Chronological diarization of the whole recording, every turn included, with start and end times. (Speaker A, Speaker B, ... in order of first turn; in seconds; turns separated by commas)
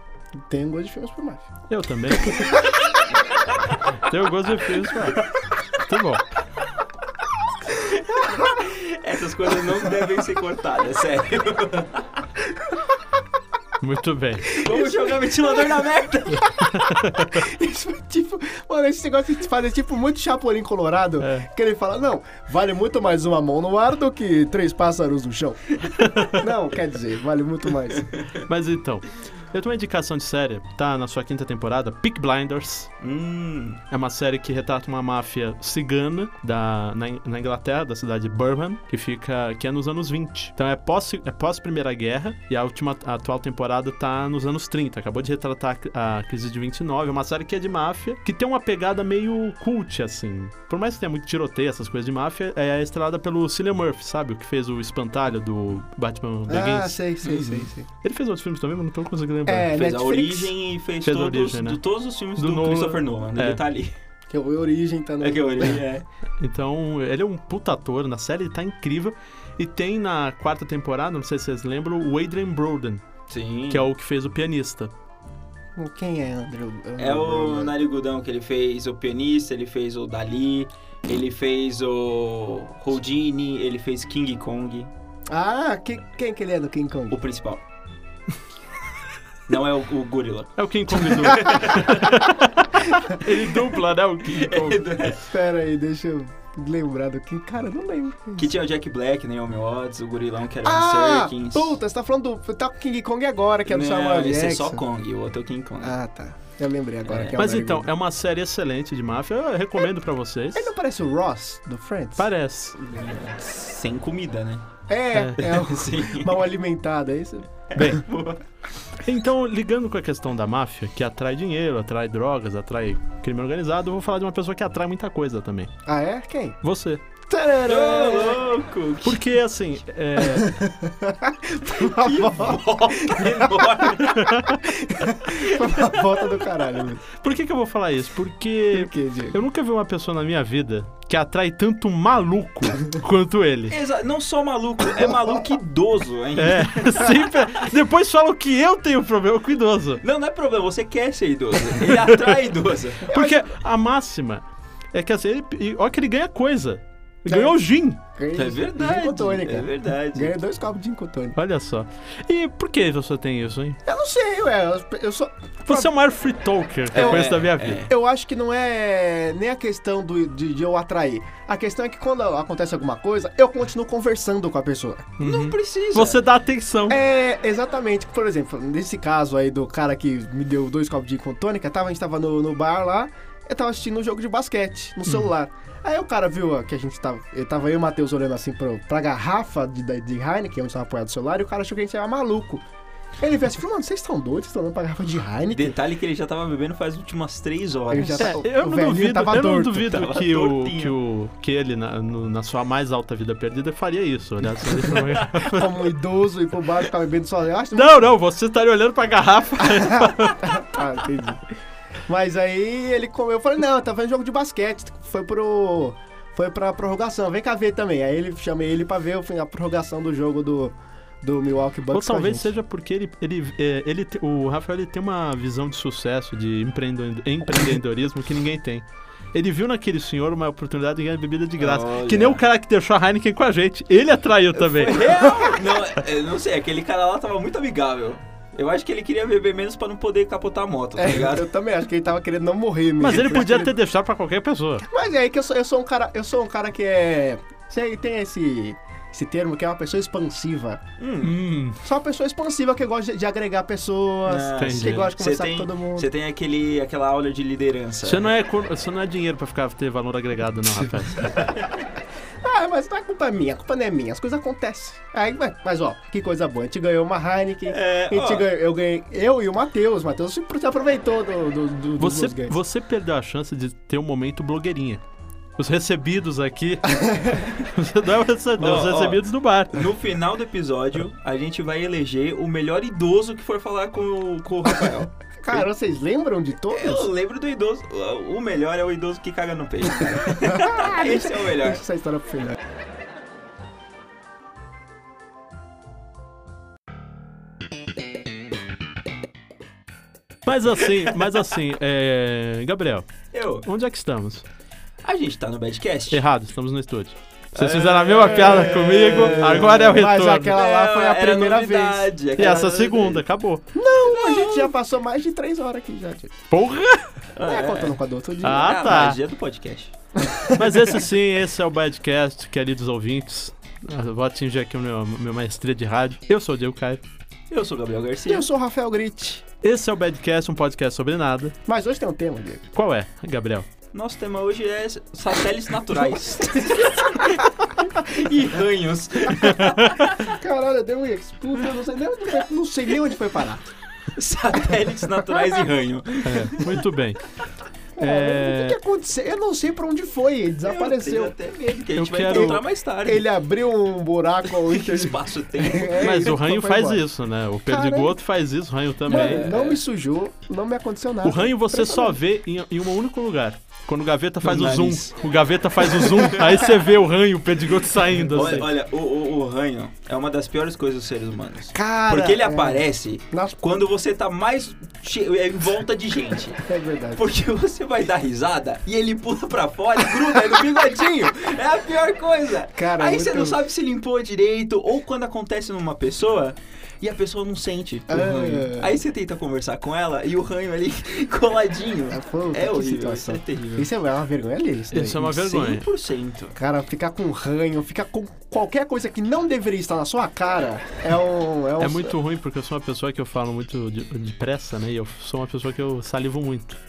Speaker A: 0.4-1.5, Speaker B: 1.7-2.7, Speaker B: 3.7-6.2, Speaker C: 7.9-12.2, Speaker A: 8.2-8.6, Speaker B: 13.8-14.6, Speaker C: 14.6-16.6, Speaker A: 14.6-15.7, Speaker A: 16.4-28.1, Speaker B: 16.7-17.4, Speaker B: 21.2-21.5, Speaker B: 26.0-26.4, Speaker B: 28.4-32.9, Speaker C: 33.0-33.8, Speaker B: 33.9-57.0, Speaker A: 56.5-57.9, Speaker C: 57.2-57.6, Speaker B: 58.0-59.7, Speaker A: 59.5-60.5, Speaker C: 59.7-64.0, Speaker B: 61.0-61.8, Speaker B: 62.4-63.6, Speaker A: 64.3-65.8, Speaker C: 65.2-66.0, Speaker B: 66.4-73.0, Speaker C: 73.3-73.8, Speaker B: 73.7-74.9, Speaker A: 75.8-77.7, Speaker C: 77.0-84.9, Speaker A: 85.3-87.2, Speaker C: 87.1-87.6, Speaker C: 89.5-92.2, Speaker B: 90.6-94.9, Speaker A: 91.1-91.6, Speaker C: 94.3-95.2, Speaker A: 95.2-98.5, Speaker C: 98.4-101.8, Speaker A: 100.6-104.8, Speaker C: 103.7-106.0, Speaker A: 105.8-107.9, Speaker C: 107.0-107.3, Speaker B: 107.3-110.7, Speaker A: 110.5-112.3, Speaker B: 112.2-112.8, Speaker C: 112.8-114.7, Speaker A: 114.9-117.9, Speaker B: 115.1-115.7, Speaker C: 115.5-116.4, Speaker C: 117.7-118.4, Speaker B: 117.8-118.0, Speaker B: 119.0-125.7, Speaker A: 125.8-126.6, Speaker B: 126.6-127.0, Speaker A: 127.3-128.4, Speaker C: 127.6-129.2, Speaker B: 129.0-130.6, Speaker A: 130.2-137.1, Speaker C: 131.8-134.4, Speaker B: 134.1-134.6, Speaker C: 135.3-136.4, Speaker B: 137.2-143.7, Speaker A: 138.7-139.4, Speaker C: 143.7-147.1, Speaker B: 146.4-150.0, Speaker C: 150.0-153.1, Speaker B: 151.7-152.4, Speaker A: 153.0-153.4, Speaker B: 153.0-158.0, Speaker A: 157.3-157.6, Speaker A: 158.1-161.4, Speaker C: 158.3-160.3, Speaker B: 161.3-163.8, Speaker A: 163.8-165.9, Speaker B: 165.7-167.8, Speaker C: 166.9-167.9, Speaker A: 166.9-167.3, Speaker A: 167.9-175.1, Speaker C: 175.2-176.2, Speaker B: 175.2-177.0, Speaker A: 176.9-192.6, Speaker A: 193.2-195.8, Speaker C: 195.5-198.4, Speaker A: 197.9-200.0, Speaker B: 198.2-205.9, Speaker C: 199.8-200.9, Speaker A: 205.4-208.1, Speaker B: 207.7-210.6, Speaker A: 209.6-211.5, Speaker A: 212.1-222.5, Speaker B: 221.9-235.1, Speaker C: 231.6-232.4, Speaker C: 234.6-241.4, Speaker A: 234.7-235.7, Speaker A: 240.9-243.7, Speaker B: 243.0-244.8, Speaker A: 244.8-250.8, Speaker C: 251.0-251.3, Speaker B: 251.2-251.8, Speaker A: 251.8-256.1, Speaker C: 254.2-258.3, Speaker B: 254.6-255.1, Speaker B: 258.0-261.5, Speaker A: 262.4-272.6, Speaker C: 267.7-268.5, Speaker B: 272.0-275.0, Speaker B: 275.6-279.9, Speaker A: 276.9-277.4, Speaker C: 278.6-285.6, Speaker A: 285.4-287.1, Speaker C: 286.7-291.8, Speaker A: 290.2-292.6, Speaker B: 300.4-304.4, Speaker C: 303.3-303.6, Speaker C: 305.0-306.2, Speaker B: 306.1-310.6, Speaker C: 307.5-313.2, Speaker A: 308.3-312.1, Speaker B: 312.4-313.7, Speaker A: 313.7-316.4, Speaker C: 314.0-314.7, Speaker B: 316.5-317.2, Speaker C: 317.4-318.0, Speaker A: 317.4-318.8, Speaker B: 318.4-319.2, Speaker C: 318.5-319.9, Speaker A: 320.2-320.8, Speaker B: 320.5-327.0, Speaker C: 327.5-328.5, Speaker A: 328.3-329.4, Speaker B: 329.6-331.6, Speaker A: 331.6-332.6, Speaker B: 332.7-333.7, Speaker C: 333.9-340.3, Speaker B: 339.4-340.1, Speaker A: 340.3-343.6, Speaker C: 344.1-346.7, Speaker B: 346.2-347.2, Speaker A: 348.0-351.3, Speaker B: 348.0-348.8, Speaker C: 350.6-353.2, Speaker B: 351.9-352.6, Speaker A: 352.3-357.0, Speaker C: 354.6-356.3, Speaker B: 356.0-359.5, Speaker A: 357.7-358.2, Speaker C: 359.1-359.8, Speaker A: 359.1-362.2, Speaker B: 361.2-368.7, Speaker C: 364.4-365.1, Speaker C: 366.1-366.6, Speaker C: 368.2-393.9, Speaker A: 371.7-373.8, Speaker A: 376.6-377.2, Speaker A: 382.7-383.6, Speaker A: 388.1-389.0, Speaker A: 392.1-395.7, Speaker B: 394.9-395.9, Speaker C: 395.4-396.6, Speaker A: 396.6-402.1, Speaker B: 401.8-406.8